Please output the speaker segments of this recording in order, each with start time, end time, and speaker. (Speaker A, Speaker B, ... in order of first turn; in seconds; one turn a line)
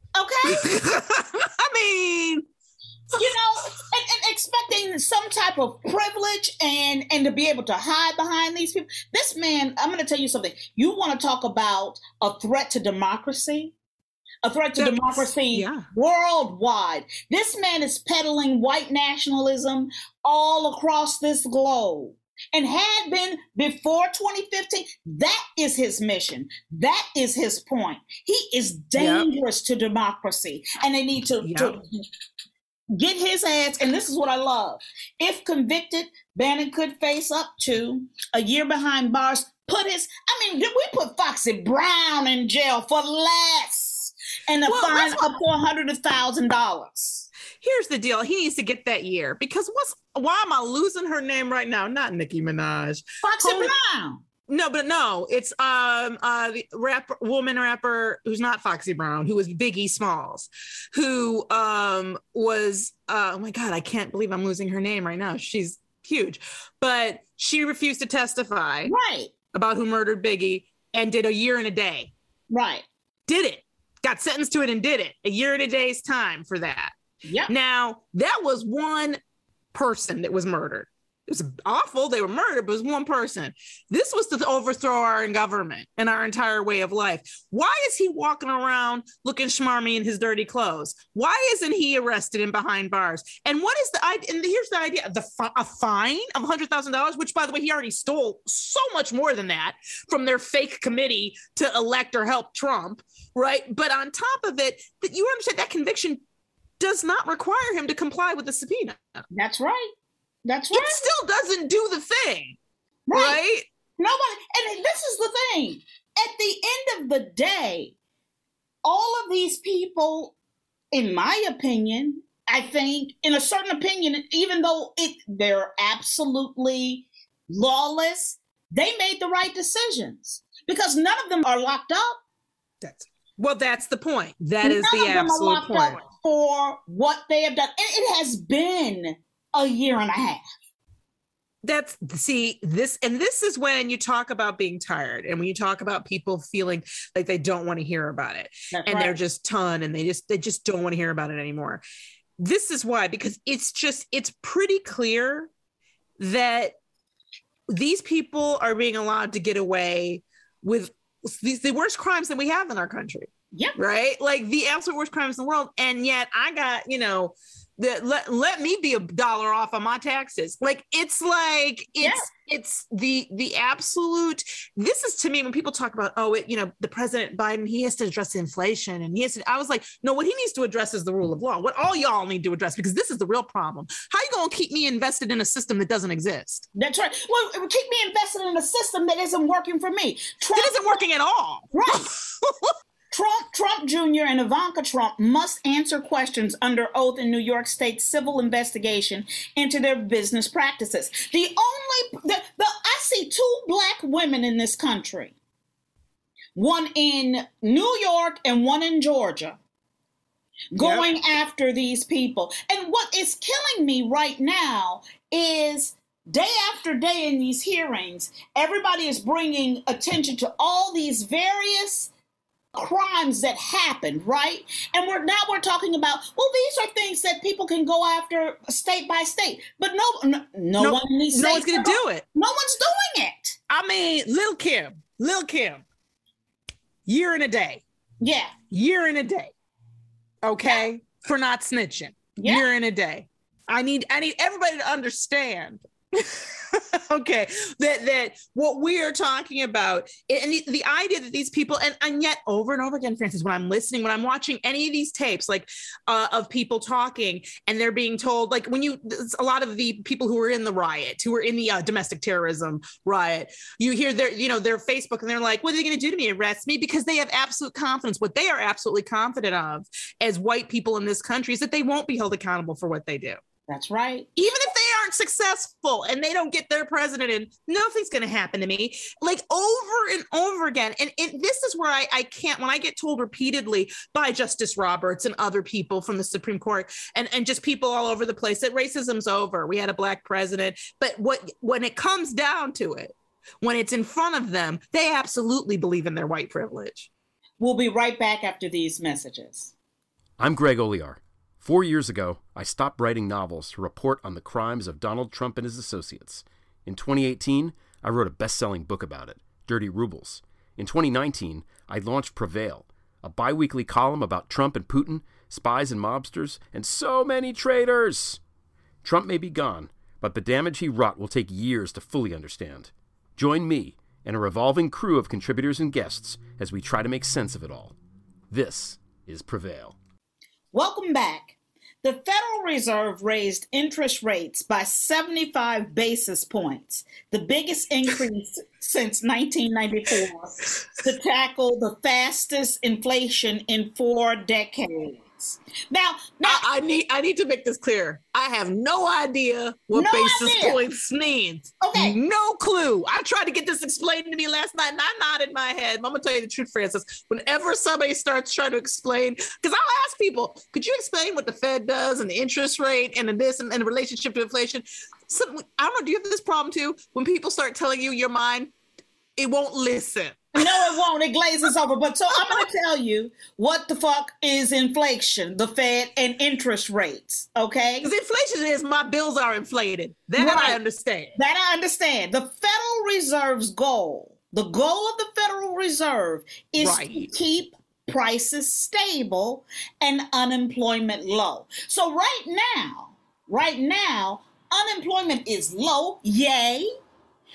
Speaker A: 0.2-0.7
Speaker B: 0.5-2.4
Speaker A: 3.2-13.8
Speaker A: 14.4-31.8
Speaker B: 14.8-15.9
Speaker B: 29.0-29.3
Speaker B: 31.4-31.8
Speaker A: 32.9-47.3
Speaker B: 44.7-45.2
Speaker B: 47.6-53.7
Speaker A: 53.2-54.2
Speaker B: 54.5-68.9
Speaker A: 68.8-69.3
Speaker B: 69.5-72.1
Speaker A: 72.5-72.8
Speaker B: 73.3-76.9
Speaker A: 77.3-77.5
Speaker B: 77.5-79.2
Speaker B: 79.7-106.2
Speaker B: 106.8-109.2
Speaker A: 109.3-109.9
Speaker A: 110.5-111.1
Speaker B: 110.7-112.6
Speaker A: 113.1-113.4
Speaker B: 113.1-113.7
Speaker A: 114.0-117.9
Speaker A: 118.8-120.3
Speaker A: 120.9-132.2
Speaker B: 132.8-136.0
Speaker A: 134.6-140.4
Speaker B: 141.6-151.8
Speaker A: 148.7-149.2
Speaker B: 152.4-155.5
Speaker B: 156.2-156.8
Speaker B: 157.7-186.7
Speaker A: 172.0-172.2
Speaker A: 186.8-191.0
Speaker B: 190.6-192.7
Speaker A: 191.7-192.1
Speaker A: 193.1-205.3
Speaker A: 206.6-209.6
Speaker A: 210.7-222.1
Speaker B: 210.8-211.1
Speaker A: 222.8-233.6
Speaker B: 230.8-232.2
Speaker B: 233.7-235.8
Speaker B: 237.1-237.8
Speaker A: 238.2-238.5
Speaker B: 238.7-239.5
Speaker B: 240.4-273.4
Speaker A: 242.4-242.7
Speaker A: 273.7-274.3
Speaker B: 274.4-297.1
Speaker A: 297.6-299.7
Speaker C: 300.4-318.4
Speaker C: 319.0-327.9
Speaker C: 328.5-330.0
Speaker A: 330.7-346.6
Speaker B: 346.4-368.7
Speaker A: 349.9-350.8
Speaker A: 351.8-352.2
Speaker B: 369.4-371.0
Speaker A: 370.6-378.1
Speaker B: 378.0-381.3
Speaker A: 380.4-380.8
Speaker A: 381.4-396.9
Speaker B: 386.8-387.3